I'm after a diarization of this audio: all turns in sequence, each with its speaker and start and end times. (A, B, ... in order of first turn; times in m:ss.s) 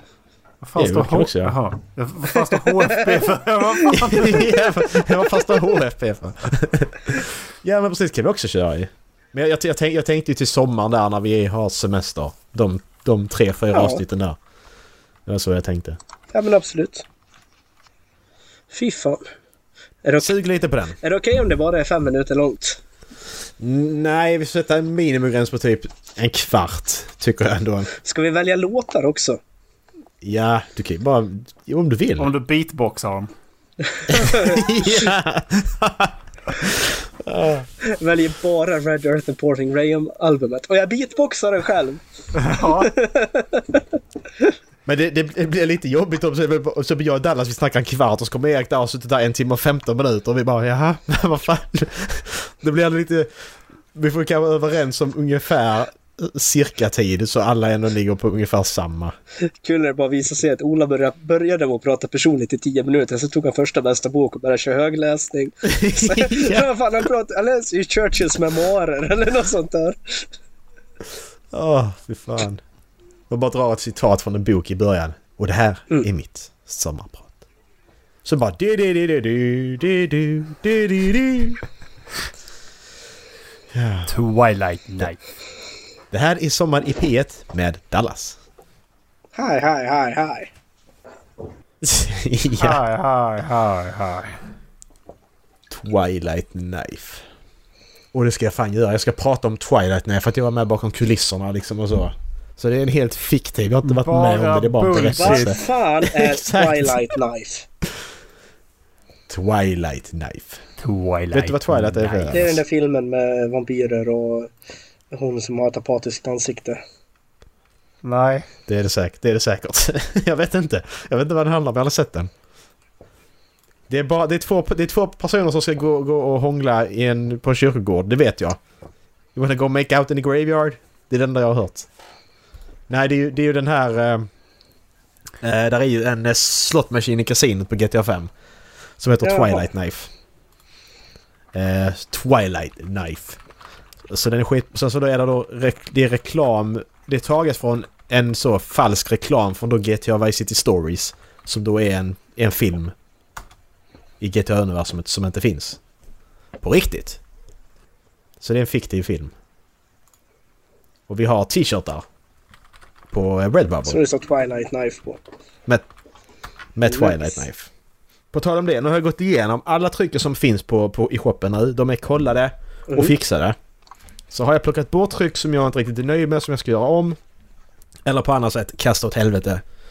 0:00.6-0:04.5 A
0:00.8-0:01.6 B
0:03.9-0:14.4 B
0:13.7-0:14.0 C
0:15.2-0:16.0 B
0:16.3-0:17.0 C
0:18.7-0:19.2 C
0:20.0-0:20.3 C
0:20.2-0:21.0 B
0:21.0-0:22.8 C
0:23.6-0:27.9 B
0:28.0-0:29.4 C
0:30.2-0:32.3 B
0:32.2-0:33.3 A
0:33.9-0:34.6 C
0:34.1-0:37.7 B
0:37.8-0:42.0 C
0:42.3-0:42.9 A
0:42.6-0:43.8 C
0:44.8-0:59.2 B
0:59.4-1:10.3 C
1:05.6-1:06.7 B
1:11.5-1:12.6 B
1:13.3-1:17.3 B
1:18.2-1:21.6 B
1:23.7-1:24.1 B
1:24.1-1:25.2 A
1:26.1-1:28.4 B
1:29.3-1:30.5 C
1:31.8-1:32.8 B
1:32.6-1:34.4 A
1:35.7-1:37.2 B
1:38.1-1:47.0 B
1:43.8-1:45.6 A
1:45.0-1:47.6 C
1:49.3-1:50.6 B
1:50.8-1:52.6 A
1:51.3-1:52.6 B
1:52.3-1:54.5 C
1:55.1-1:56.8 C
1:58.0-1:58.5 A
1:58.7-2:02.3 B
2:03.9-2:08.6 B
2:09.3-2:11.9 B
2:12.9-2:14.3 B
2:15.4-2:18.3 B
2:19.0-2:20.1 B
2:19.2-2:19.6 C
2:21.5-2:23.4 B
2:24.1-2:32.9 B
2:34.2-2:35.8 B
2:36.6-2:37.2 B
2:38.4-2:39.3 B
2:41.1-2:42.0 B
2:43.1-2:44.0 B
2:43.8-2:45.2 C
2:46.7-2:47.7 B
2:46.9-2:47.4 C
2:48.3-2:53.6 B
2:52.9-2:53.1 C
2:54.3-2:57.2 B
2:58.0-2:59.6 B